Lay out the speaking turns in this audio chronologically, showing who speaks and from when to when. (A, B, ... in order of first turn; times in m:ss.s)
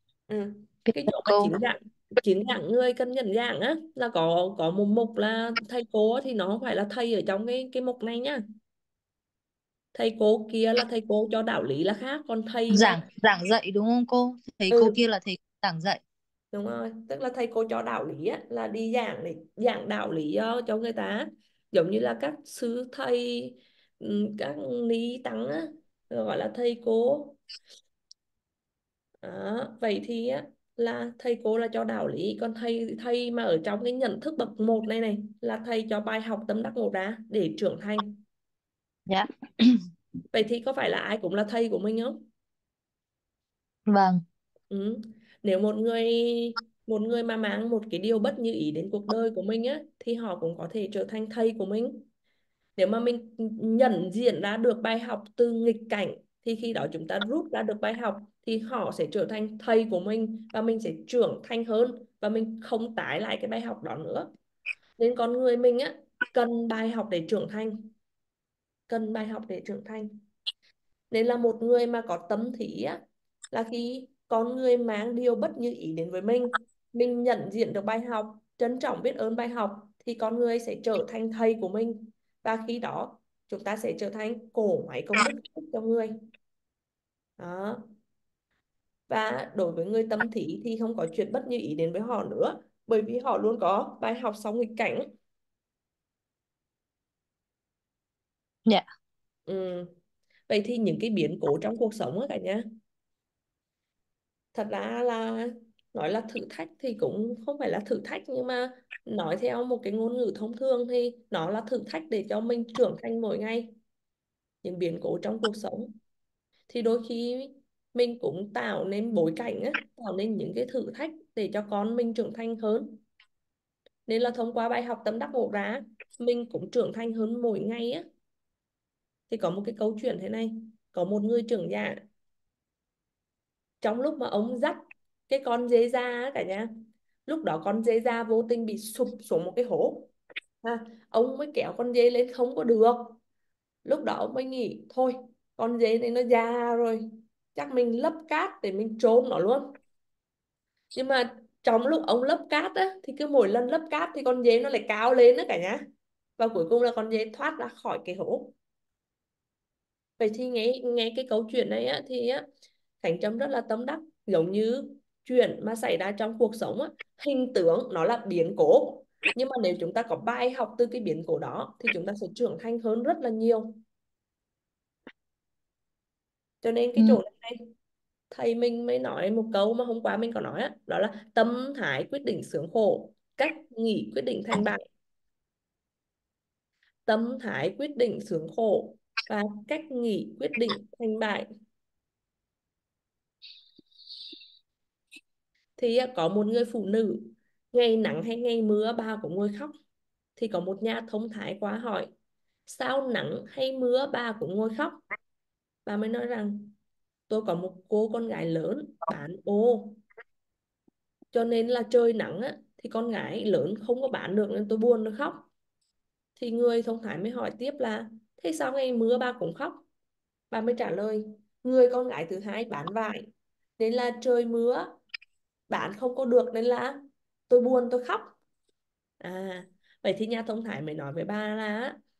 0:00.3-0:08.4 A
0:00.9-0:01.5 B
0:09.9-0:13.0 A
0:12.7-0:16.0 B
0:14.7-0:15.0 A
0:16.5-0:27.4 A
0:29.2-0:38.2 A
0:39.1-0:39.8 B
0:40.3-0:42.2 A
0:43.9-0:44.2 B
0:44.7-0:52.0 A
0:52.8-1:04.3 A
1:05.0-1:07.9 A
1:08.9-1:10.2 A
1:11.1-1:13.0 A
1:13.5-1:26.2 A
1:27.4-1:27.8 A
1:29.1-1:35.1 A
1:39.5-1:39.9 A
1:40.5-1:42.6 A
1:44.5-1:53.7 A
1:54.6-1:55.9 A
1:56.7-2:03.0 A
2:04.1-2:08.0 A
2:09.3-2:12.0 A
2:13.8-2:16.7 A
2:17.2-2:20.1 A
2:20.6-2:23.2 A
2:23.8-2:29.8 A
2:31.0-2:35.8 A
2:36.4-2:38.5 A
2:40.2-2:42.4 A
2:43.0-2:53.8 A
2:56.6-2:57.7 A
2:58.3-3:04.8 A
3:07.0-3:11.5 A
3:15.8-3:19.7 A
3:20.4-3:22.1 A
3:22.7-3:25.0 A
3:25.8-3:26.7 A
3:27.3-3:30.0 A
3:31.3-3:35.5 A
3:36.4-3:39.8 A
3:40.5-3:44.9 A
3:45.7-3:48.3 A
3:49.2-3:52.0 A